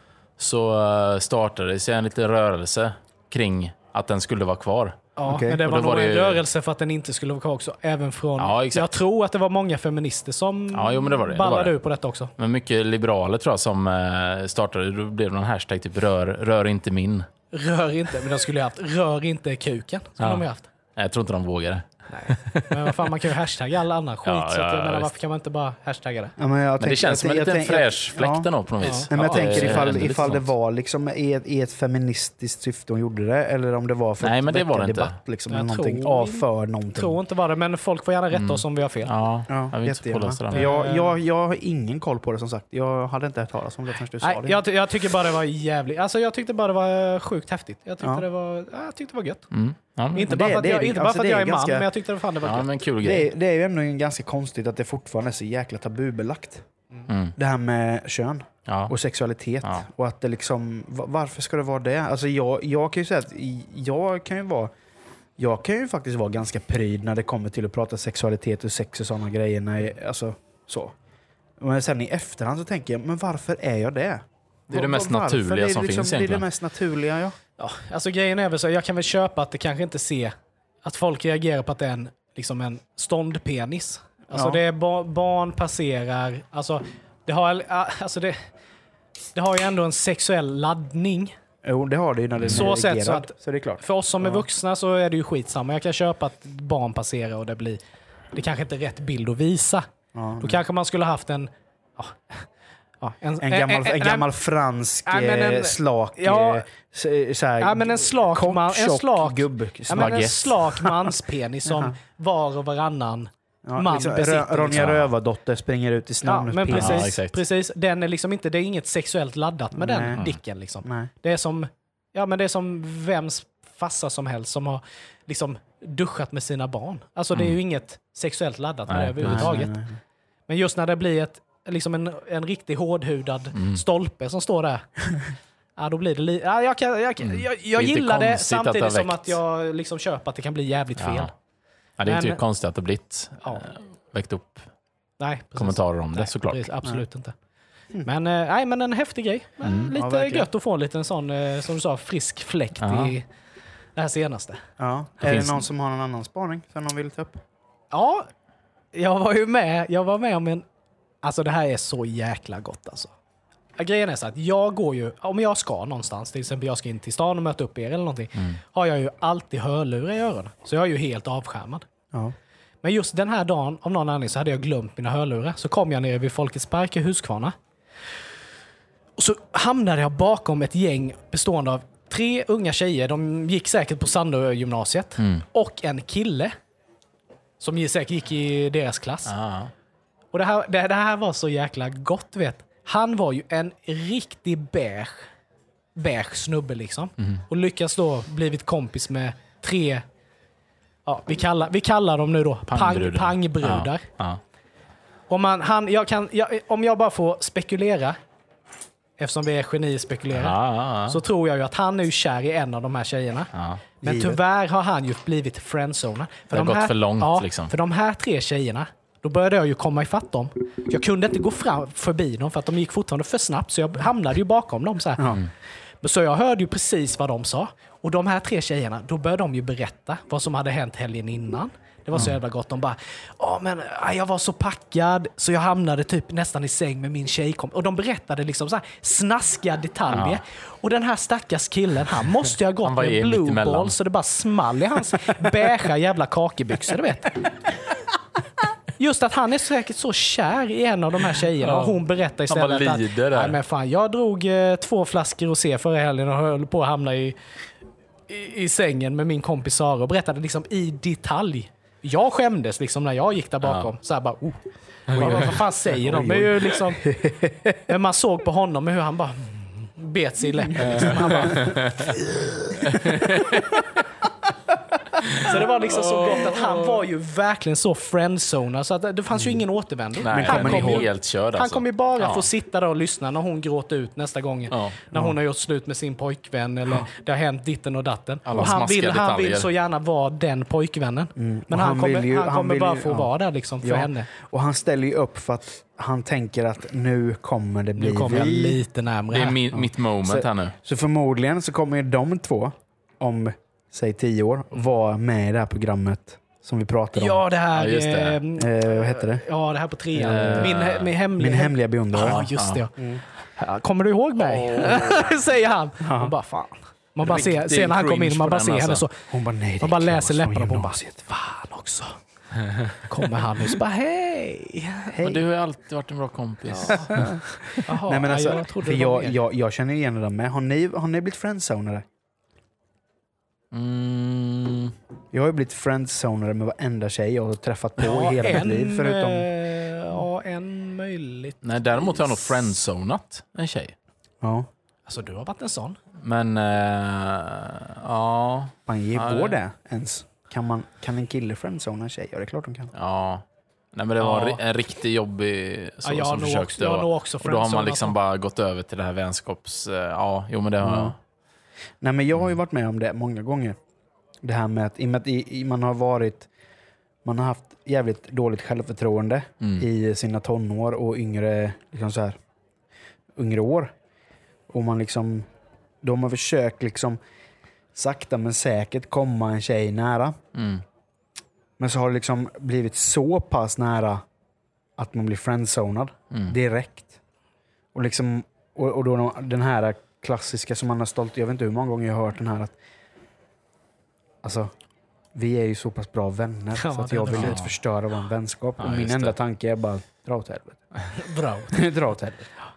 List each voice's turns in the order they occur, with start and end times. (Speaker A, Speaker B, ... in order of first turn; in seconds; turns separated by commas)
Speaker A: 0.4-6.4, Speaker B: 5.2-12.3, Speaker C: 5.3-5.6, Speaker A: 8.4-9.0, Speaker A: 10.7-11.8, Speaker A: 12.4-17.3, Speaker B: 17.5-20.7, Speaker A: 20.2-20.4, Speaker A: 21.0-23.2, Speaker B: 22.1-26.3, Speaker A: 24.2-25.1, Speaker C: 26.4-28.5, Speaker A: 26.8-30.5, Speaker B: 28.8-29.9, Speaker C: 29.1-37.2, Speaker A: 34.2-35.2, Speaker B: 35.5-39.1, Speaker A: 38.3-40.7, Speaker C: 39.5-44.6, Speaker B: 40.5-41.2, Speaker B: 44.2-49.5, Speaker A: 49.5-50.4, Speaker B: 50.1-52.7, Speaker C: 50.2-51.9, Speaker A: 52.4-53.3, Speaker C: 53.0-56.6, Speaker A: 57.1-57.4, Speaker C: 57.4-64.7, Speaker A: 58.7-58.9, Speaker C: 65.4-71.0, Speaker C: 71.6-77.4, Speaker A: 74.7-76.5, Speaker B: 77.6-88.4, Speaker C: 84.3-84.6, Speaker B: 89.3-91.3, Speaker C: 91.6-94.4, Speaker A: 92.4-92.7, Speaker B: 92.5-97.8, Speaker B: 98.3-99.9, Speaker C: 100.1-100.6, Speaker B: 100.4-102.5, Speaker B: 103.0-104.3, Speaker C: 103.4-111.1, Speaker B: 105.1-106.7, Speaker B: 107.6-114.9, Speaker A: 110.0-110.6, Speaker C: 111.7-112.0, Speaker C: 113.6-117.1, Speaker A: 114.7-115.1, Speaker B: 116.2-129.7, Speaker A: 116.7-117.4, Speaker C: 119.7-120.2, Speaker C: 120.8-121.1, Speaker A: 128.9-129.6, Speaker C: 129.2-130.0, Speaker B: 130.5-134.9, Speaker A: 133.5-133.8, Speaker B: 135.8-141.3, Speaker A: 137.2-139.4, Speaker A: 141.0-141.3, Speaker A: 142.0-144.7, Speaker B: 142.1-142.4, Speaker B: 143.4-143.7, Speaker B: 145.2-147.3, Speaker A: 145.6-146.7, Speaker B: 148.0-153.3, Speaker A: 149.6-149.9, Speaker C: 149.9-150.5, Speaker A: 152.8-153.2, Speaker B: 153.9-154.6, Speaker C: 154.8-157.4, Speaker A: 155.2-155.7, Speaker B: 157.9-158.3, Speaker B: 158.9-160.7, Speaker B: 161.2-163.1, Speaker B: 163.8-171.8, Speaker B: 172.8-177.6, Speaker B: 179.2-186.5, Speaker A: 185.2-185.4, Speaker B: 187.6-189.3, Speaker A: 189.3-189.7, Speaker B: 190.3-195.3, Speaker B: 196.0-200.1, Speaker B: 201.1-204.1, Speaker A: 202.7-204.4, Speaker B: 205.3-208.2, Speaker B: 209.2-213.5, Speaker A: 210.3-211.2, Speaker A: 213.5-213.8, Speaker C: 214.0-214.4, Speaker B: 214.0-225.3, Speaker A: 216.5-217.7, Speaker C: 225.2-225.4, Speaker B: 226.0-247.5, Speaker A: 240.1-240.4, Speaker A: 242.8-244.0, Speaker B: 249.0-257.4, Speaker A: 251.6-253.6, Speaker B: 258.3-267.1, Speaker A: 263.6-263.9, Speaker A: 265.1-265.5, Speaker C: 265.1-267.9, Speaker B: 267.9-272.1, Speaker C: 270.8-271.8, Speaker A: 270.8-272.2, Speaker C: 272.3-272.8, Speaker A: 272.8-273.9, Speaker A: 275.2-277.0, Speaker B: 275.4-294.3, Speaker A: 280.2-282.5, Speaker C: 280.3-281.1, Speaker A: 284.7-285.0, Speaker A: 288.5-289.7, Speaker C: 291.4-298.8, Speaker B: 298.0-299.6, Speaker A: 299.3-300.8, Speaker C: 299.7-307.4, Speaker B: 307.1-319.1, Speaker A: 307.7-308.4, Speaker C: 308.6-309.4, Speaker C: 310.1-310.8, Speaker A: 310.3-311.1, Speaker C: 311.4-312.4, Speaker A: 312.2-312.8, Speaker C: 313.0-313.2, Speaker A: 314.4-315.3, Speaker C: 316.0-316.3, Speaker A: 317.2-319.1, Speaker C: 319.3-321.2, Speaker B: 319.8-322.2, Speaker B: 323.0-325.1, Speaker C: 325.1-325.4, Speaker A: 325.2-327.3, Speaker B: 326.9-327.1, Speaker C: 326.9-332.1, Speaker B: 327.8-329.4, Speaker A: 333.7-334.9, Speaker C: 335.3-339.5, Speaker B: 338.0-342.3, Speaker A: 341.6-343.9, Speaker C: 344.4-344.7, Speaker B: 345.1-346.0, Speaker A: 346.2-349.6, Speaker C: 348.9-352.9, Speaker A: 352.9-361.2, Speaker B: 354.2-354.6, Speaker B: 356.0-358.2, Speaker C: 360.8-361.1, Speaker C: 362.0-363.8, Speaker C: 364.4-366.5, Speaker C: 367.2-372.4, Speaker A: 369.6-369.9, Speaker C: 373.4-373.9, Speaker C: 374.7-375.5, Speaker C: 376.0-377.2, Speaker C: 377.9-380.4, Speaker A: 380.6-380.8, Speaker C: 381.8-384.2, Speaker C: 385.0-387.2, Speaker C: 387.9-392.8, Speaker C: 394.4-394.7, Speaker C: 395.3-400.8, Speaker B: 396.8-397.6, Speaker A: 397.3-397.7, Speaker A: 398.8-399.4, Speaker B: 401.2-401.8, Speaker C: 401.7-402.5